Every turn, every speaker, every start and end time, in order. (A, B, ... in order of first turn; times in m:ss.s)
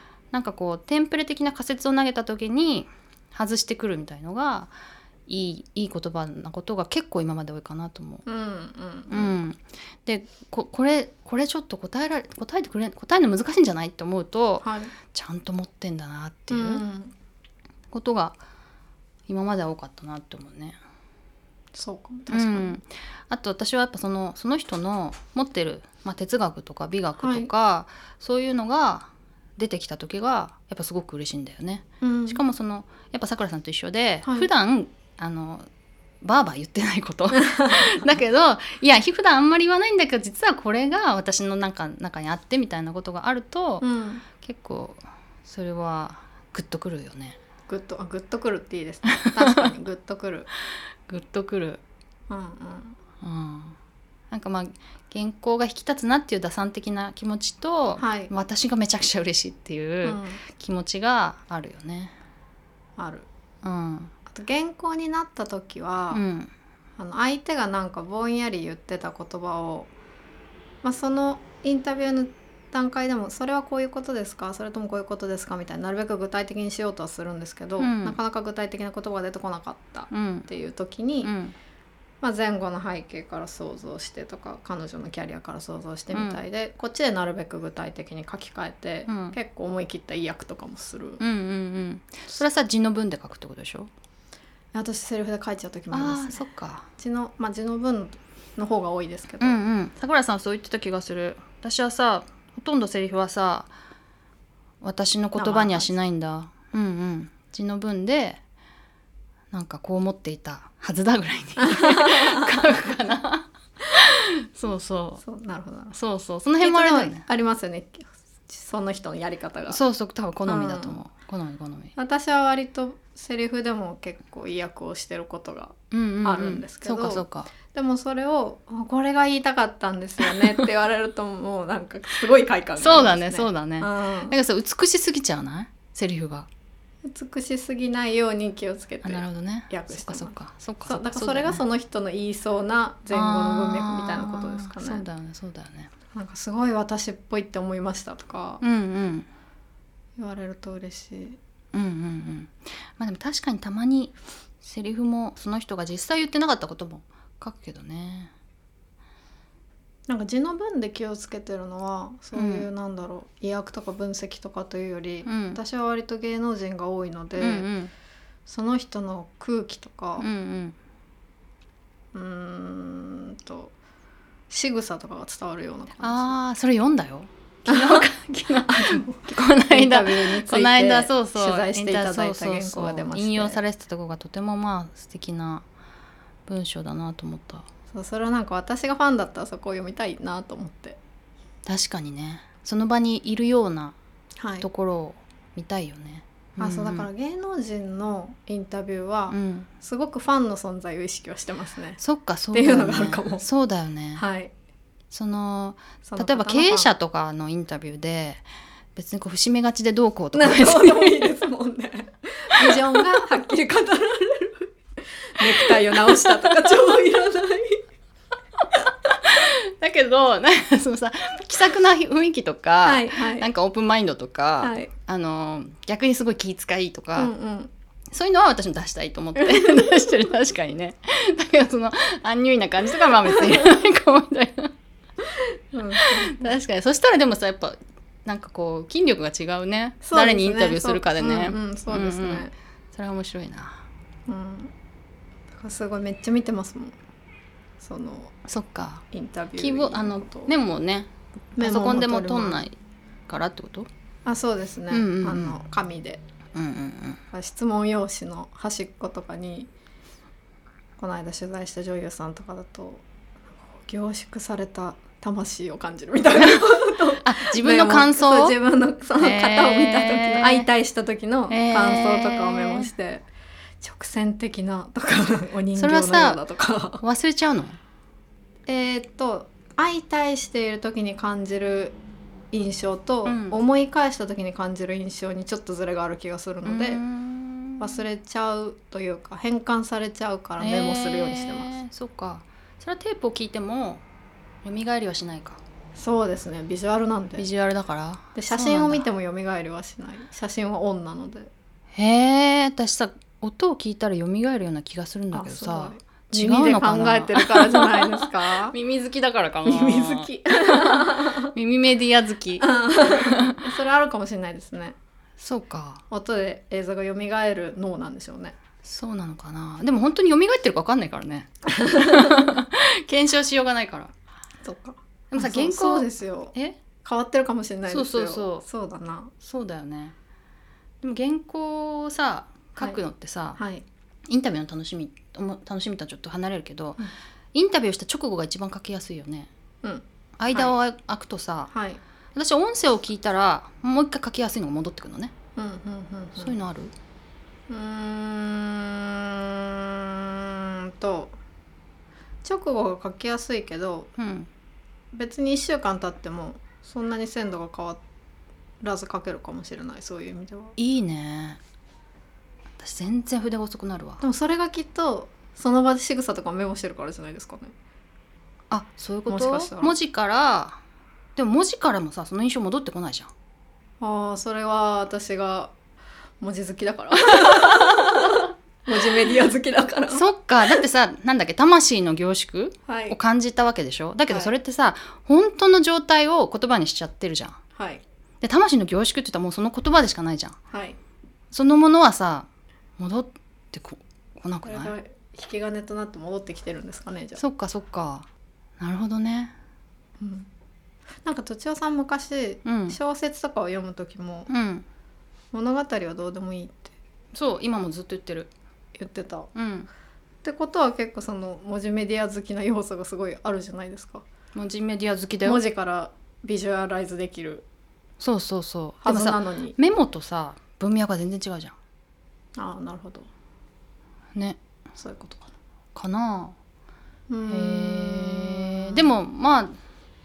0:00.3-0:04.7 A
0:05.3-0:08.2 A
0:08.3-0:09.4 B
0:09.1-0:16.8 A
0:14.6-0:14.9 B
0:16.5-0:17.1 B
0:17.9-0:18.4 A
0:19.3-0:20.8 A
0:21.7-0:22.8 B
0:22.3-0:35.7 A
0:27.2-0:27.5 B
0:32.0-0:32.4 B
0:36.2-0:43.8 A
0:43.8-0:44.2 B
0:44.4-0:47.4 A
0:47.7-0:50.5 B
0:51.1-0:51.8 A
0:52.3-0:53.0 B
0:53.2-0:53.8 A
0:54.3-1:02.2 A
0:58.0-0:58.3 B
1:00.0-1:00.4 B
1:03.0-1:03.3 B
1:03.6-1:04.1 A
1:04.3-1:06.2 B
1:06.1-1:06.5 A
1:07.0-1:09.9 B
1:10.8-1:21.3 B
1:17.8-1:18.2 A
1:20.1-1:20.5 A
1:21.2-1:21.6 A
1:22.2-1:31.2 B
1:26.1-1:26.4 A
1:29.1-1:29.4 A
1:31.2-1:33.9 A
1:34.7-1:36.5 B
1:35.9-1:36.9 A
1:37.0-1:39.6 B
1:39.4-1:43.7 A
1:44.8-1:48.4 A
1:45.4-1:45.9 B
1:49.5-1:55.2 A
1:51.6-1:52.7 B
1:55.2-1:56.0 B
1:55.9-1:57.2 A
1:56.6-1:59.8 B
1:59.7-2:01.9 A
2:00.5-2:01.0 B
2:02.0-2:14.4 B
2:05.9-2:07.5 A
2:12.8-2:16.5 A
2:17.0-2:25.0 B
2:19.0-2:21.6 A
2:23.1-2:25.9 A
2:26.1-2:28.6 B
2:28.6-2:29.3 A
2:30.2-2:31.4 B
2:31.7-2:38.3 A
2:40.1-2:47.7 B
2:42.3-2:42.7 A
2:45.2-2:45.6 A
2:47.4-2:47.9 A
2:48.5-2:50.3 B
2:50.2-2:50.8 A
2:52.1-2:53.7 B
2:54.5-2:56.3 B
2:56.0-3:05.7 A
2:57.7-2:58.1 B
2:58.7-3:03.6 B
3:06.5-3:07.7 A
3:07.9-3:11.0 B
3:11.7-3:14.0 A
3:14.4-3:14.7 B
3:14.6-3:17.1 A
3:16.6-3:22.0 B
3:19.3-3:19.7 A
3:22.0-3:24.2 A
3:22.5-3:23.4 B
3:24.2-3:24.5 B
3:25.1-3:28.4 A
3:26.0-3:26.9 B
3:29.0-3:31.3 A
3:30.3-3:34.7 B
3:32.6-3:33.0 A
3:35.3-3:37.8 B
3:36.0-3:36.5 A
3:39.1-3:47.3 A
3:42.8-3:43.5 B
3:44.6-3:44.9 B
3:47.2-3:47.7 B
3:48.1-3:54.7 A
3:49.6-3:50.0 B
3:55.7-3:56.6 B
3:56.0-4:03.8 A
4:00.0-4:02.5 B
4:04.3-4:04.7 B
4:05.6-4:07.0 B
4:07.8-4:08.4 B
4:08.5-4:09.0 A
4:09.1-4:10.5 B
4:09.6-4:12.8 A
4:11.6-4:12.7 B
4:13.3-4:13.9 A
4:14.3-4:16.2 B
4:14.9-4:15.6 A
4:16.5-4:17.2 A
4:17.3-4:19.7 B
4:21.0-4:23.0 B
4:23.6-4:33.2 B
4:26.4-4:28.6 A
4:29.2-4:30.7 A
4:31.5-4:32.9 A
4:33.8-4:37.0 B
4:35.8-4:36.4 A
4:37.0-4:37.8 A
4:38.7-4:42.0 B
4:42.5-4:47.0 B
4:43.2-4:43.6 A
4:46.6-4:48.0 A
4:47.8-4:51.7 B
4:50.6-4:54.0 A
4:54.6-4:55.6 A
4:56.0-4:57.5 B
4:57.4-4:59.0 A
4:58.4-5:01.5 B
5:02.0-5:13.6 A
5:05.3-5:08.8 B
5:09.6-5:11.5 B
5:12.6-5:15.0 B
5:15.4-5:16.0 A
5:16.1-5:18.6 B
5:18.8-5:24.1 A
5:21.8-5:22.5 B
5:24.6-5:29.3 B
5:25.3-5:26.8 A
5:27.9-5:28.6 A
5:29.4-5:30.2 A
5:31.0-5:33.6 A
5:33.6-5:33.8 B
5:34.3-5:39.5 A
5:39.8-5:40.7 B
5:40.4-5:41.7 A
5:41.7-5:42.0 B
5:42.4-5:45.3 A
5:45.6-5:46.6 B
5:46.4-5:46.9 A
5:47.7-5:51.4 B
5:52.4-5:54.1 B
5:54.2-5:54.5 A
5:55.1-5:58.0 B
5:58.8-6:00.8 B
6:00.8-6:01.6 A
6:02.8-6:04.2 A
6:04.2-6:07.7 B
6:08.7-6:10.8 A
6:09.3-6:10.0 B
6:11.4-6:13.3 A
6:14.0-6:15.7 B
6:16.4-6:20.8 B
6:20.1-6:27.6 A
6:22.9-6:23.2 B
6:24.3-6:24.5 B
6:27.8-6:28.0 B
6:28.4-6:30.6 A
6:30.7-6:31.0 B
6:31.5-6:32.5 A
6:33.0-6:34.9 A
6:34.6-6:37.4 B
6:37.4-6:38.3 A
6:38.8-6:39.5 A
6:40.2-6:40.5 B
6:41.2-6:44.5 B
6:42.6-6:43.0 A
6:44.5-6:44.9 A
6:45.5-6:46.9 B
6:47.3-6:48.5 A
6:49.0-6:49.5 B
6:49.6-6:49.9 A
6:50.4-6:54.3 B
6:54.5-6:55.6 A
6:55.4-6:57.6 B
6:58.2-7:01.8 A
6:59.0-6:59.8 B
7:02.6-7:03.3 B
7:05.0-7:05.5 B
7:06.0-7:06.6 A
7:07.3-7:09.1 B
7:07.5-7:09.8 A